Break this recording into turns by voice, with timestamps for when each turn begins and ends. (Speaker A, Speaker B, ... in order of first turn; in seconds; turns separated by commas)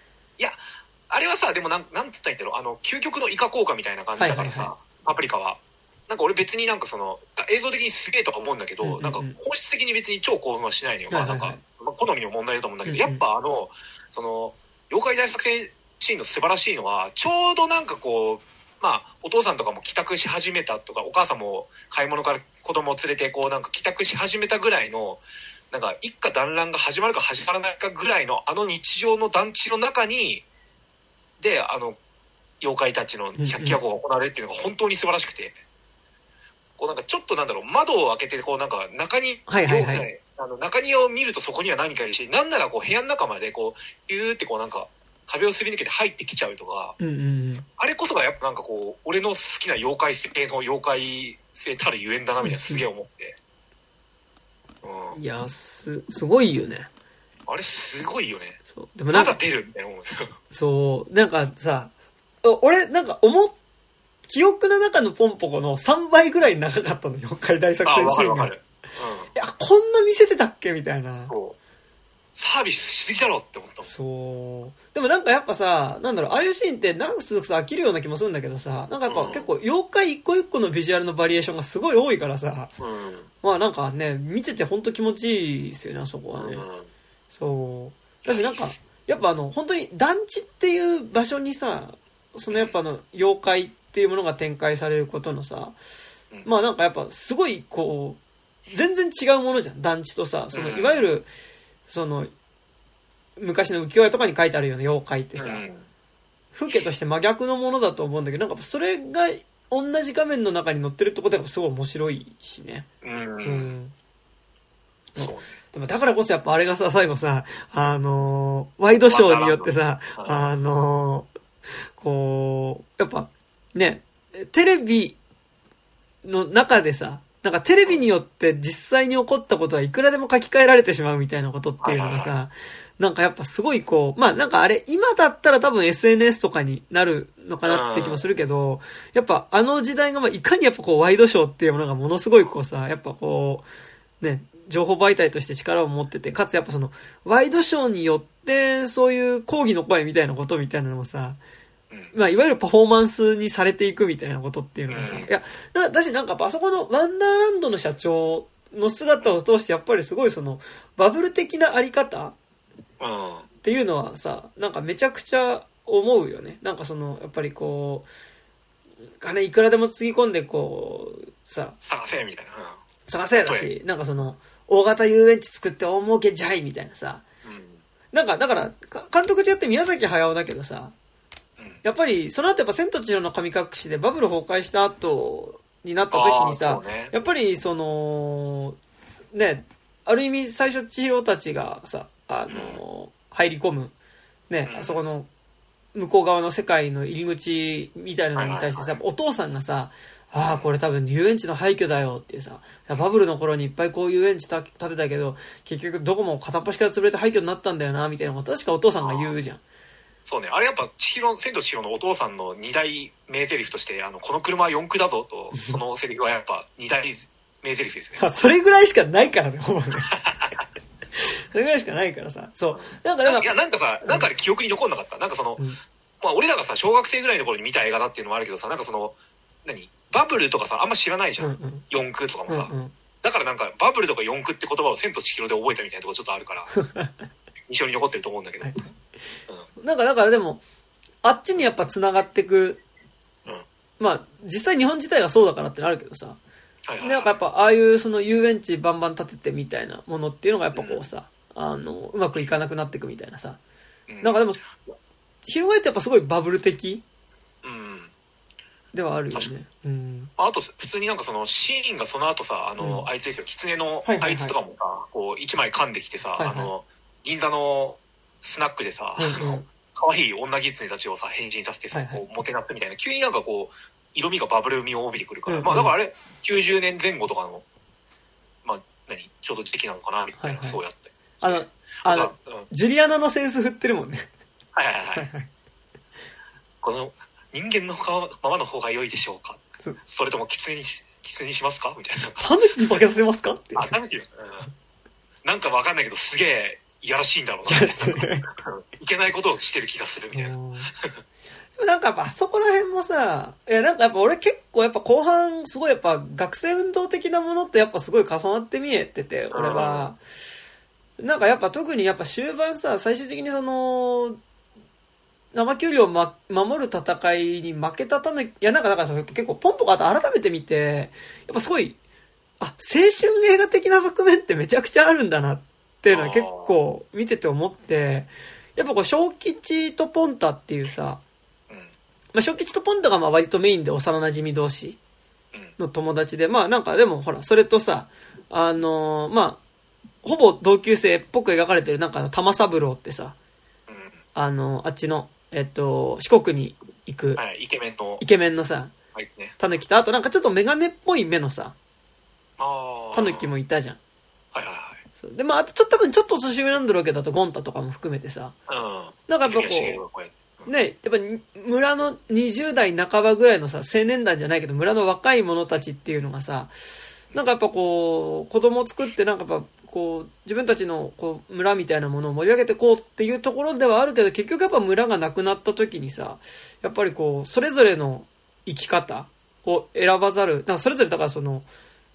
Speaker A: 0.4-30.4, Speaker B: 4.2-4.7, Speaker B: 8.8-9.4, Speaker B: 11.1-11.6, Speaker B: 12.8-13.2, Speaker A: 31.4-32.0, Speaker A: 32.6-35.6, Speaker B: 33.4-33.8, Speaker A: 36.8-47.0, Speaker B: 39.5-40.1, Speaker B: 47.0-47.7, Speaker A: 47.8-53.4, Speaker B: 52.4-52.8, Speaker A: 54.8-55.2, Speaker B: 55.1-56.9, Speaker A: 57.5-58.6, Speaker B: 58.7-59.4, Speaker A: 59.1-60.3, Speaker B: 60.5-61.9, Speaker B: 62.4-63.6, Speaker B: 64.3-68.5, Speaker A: 67.8-69.3, Speaker B: 69.3-71.3, Speaker A: 71.3-71.6, Speaker A: 72.3-73.9, Speaker B: 73.8-82.7, Speaker A: 79.1-79.5, Speaker A: 82.8-83.3, Speaker B: 83.4-86.7, Speaker A: 86.4-86.9, Speaker B: 87.3-95.8, Speaker A: 88.2-88.8, Speaker B: 96.5-101.3, Speaker A: 100.5-101.0, Speaker B: 101.9-102.3, Speaker B: 103.4-105.6, Speaker A: 105.4-105.9, Speaker B: 106.5-112.9, Speaker A: 113.0-113.7, Speaker B: 113.4-114.0, Speaker B: 115.2-121.3, Speaker A: 115.2-115.5, Speaker A: 119.1-120.5, Speaker B: 122.0-125.2, Speaker B: 126.2-143.7, Speaker A: 131.8-132.3, Speaker A: 137.7-138.2, Speaker B: 144.2-151.4, Speaker B: 152.1-162.4, Speaker A: 154.9-155.3, Speaker A: 163.0-163.5, Speaker B: 163.6-168.1, Speaker B: 169.2-171.8, Speaker A: 171.8-172.8, Speaker B: 173.1-177.2, Speaker A: 173.4-173.7, Speaker A: 177.4-177.8, Speaker B: 178.1-180.9, Speaker B: 181.8-188.8, Speaker A: 186.1-187.1, Speaker B: 189.3-193.9, Speaker A: 192.5-192.8, Speaker B: 194.5-195.3, Speaker A: 194.7-195.0, Speaker B: 195.9-209.6, Speaker A: 198.4-199.0, Speaker A: 209.0-209.3, Speaker A: 210.2-218.6, Speaker B: 215.5-215.8, Speaker B: 218.2-220.2, Speaker A: 220.1-220.6, Speaker B: 221.2-223.5, Speaker A: 222.7-225.6, Speaker B: 224.0-224.3, Speaker A: 226.2-236.7, Speaker B: 231.4-231.8, Speaker B: 232.5-232.9, Speaker B: 236.8-237.1, Speaker A: 237.7-238.8, Speaker B: 239.8-240.6, Speaker B: 241.2-242.8, Speaker B: 244.0-246.4, Speaker A: 246.9-247.3, Speaker B: 247.0-253.6, Speaker A: 250.8-251.0, Speaker A: 254.1-254.5, Speaker B: 254.2-254.6, Speaker B: 255.4-257.0, Speaker A: 257.6-258.1, Speaker B: 258.9-260.3, Speaker A: 260.4-277.6, Speaker B: 262.8-263.1, Speaker B: 264.0-264.5, Speaker B: 266.4-266.7, Speaker B: 269.2-269.7, Speaker B: 271.9-272.3, Speaker B: 275.5-275.9, Speaker A: 278.6-282.7, Speaker B: 280.4-280.8, Speaker B: 281.4-284.3, Speaker A: 284.7-285.3, Speaker B: 285.2-285.5, Speaker A: 286.8-292.5, Speaker B: 292.4-293.9, Speaker A: 293.8-294.7, Speaker A: 295.4-301.2, Speaker B: 297.7-298.4, Speaker B: 300.3-300.9, Speaker B: 301.8-310.2, Speaker A: 309.5-310.1, Speaker B: 311.2-314.4, Speaker B: 315.5-322.0, Speaker B: 322.6-331.2, Speaker A: 326.1-326.8, Speaker B: 332.3-335.0, Speaker B: 335.8-339.6, Speaker B: 340.2-343.4, Speaker A: 343.9-344.2, Speaker B: 344.4-347.4, Speaker A: 347.4-348.2, Speaker B: 348.2-348.9, Speaker A: 349.1-349.6, Speaker B: 349.6-351.8, Speaker A: 352.6-353.5, Speaker B: 353.1-354.0, Speaker A: 354.5-355.0, Speaker B: 355.2-358.6, Speaker A: 358.7-360.7, Speaker B: 359.3-360.0, Speaker B: 360.7-366.7, Speaker B: 367.3-381.7